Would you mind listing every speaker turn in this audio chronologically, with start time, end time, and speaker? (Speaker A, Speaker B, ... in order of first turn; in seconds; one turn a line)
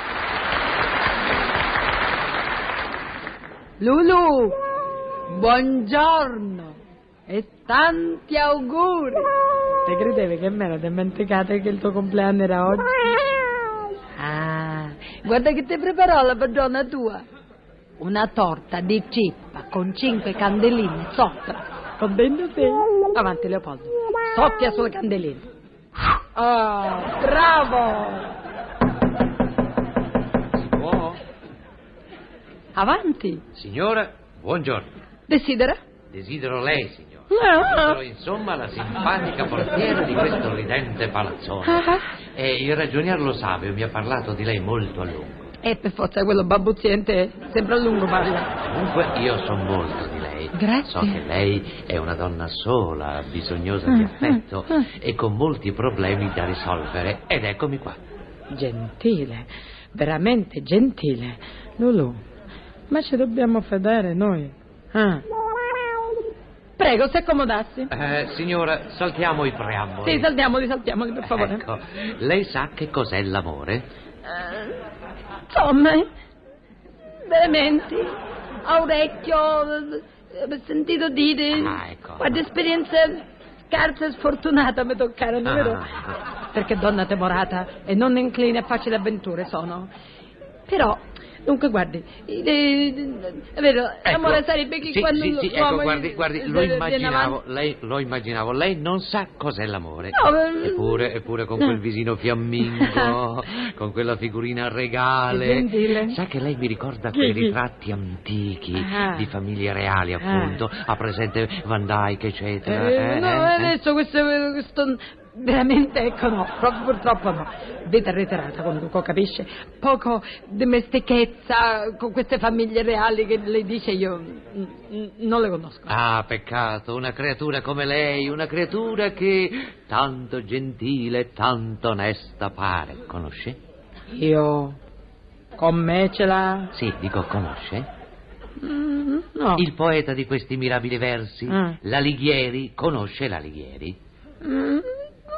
Speaker A: 3.8-4.6
Speaker A: 5.3-9.3
Speaker A: 9.8-13.3
Speaker A: 14.2-17.2
Speaker A: 18.0-25.5
Speaker A: 26.3-28.3
Speaker B: 30.6-31.2
Speaker A: 32.8-33.5
Speaker B: 33.5-34.9
Speaker A: 35.3-35.8
Speaker B: 36.1-45.5
Speaker A: 37.3-38.0
Speaker A: 41.6-42.1
Speaker A: 45.6-48.5
Speaker B: 48.6-58.0
Speaker A: 50.5-51.2
Speaker A: 53.9-54.9
Speaker A: 58.5-62.2
Speaker A: 62.9-65.2
Speaker A: 66.8-67.9
Speaker B: 67.9-70.3
Speaker A: 70.0-71.6
Speaker B: 71.2-73.9
Speaker A: 74.3-74.8
Speaker A: 75.5-76.1
Speaker A: 77.3-85.8
Speaker B: 81.5-82.4
Speaker B: 85.5-86.2
Speaker A: 86.5-89.9
Speaker A: 90.7-97.4
Speaker B: 94.0-113.8
Speaker A: 100.1-101.8
Speaker A: 102.6-103.2
Speaker A: 105.3-106.2
Speaker A: 107.1-107.6
Speaker A: 108.8-109.3
Speaker A: 110.2-110.6
Speaker A: 112.6-126.0
Speaker B: 125.9-133.6
Speaker A: 134.1-134.8
Speaker A: 135.6-136.7
Speaker B: 136.7-137.9
Speaker A: 138.6-139.7
Speaker B: 139.6-144.0
Speaker A: 141.5-141.8
Speaker A: 144.4-145.0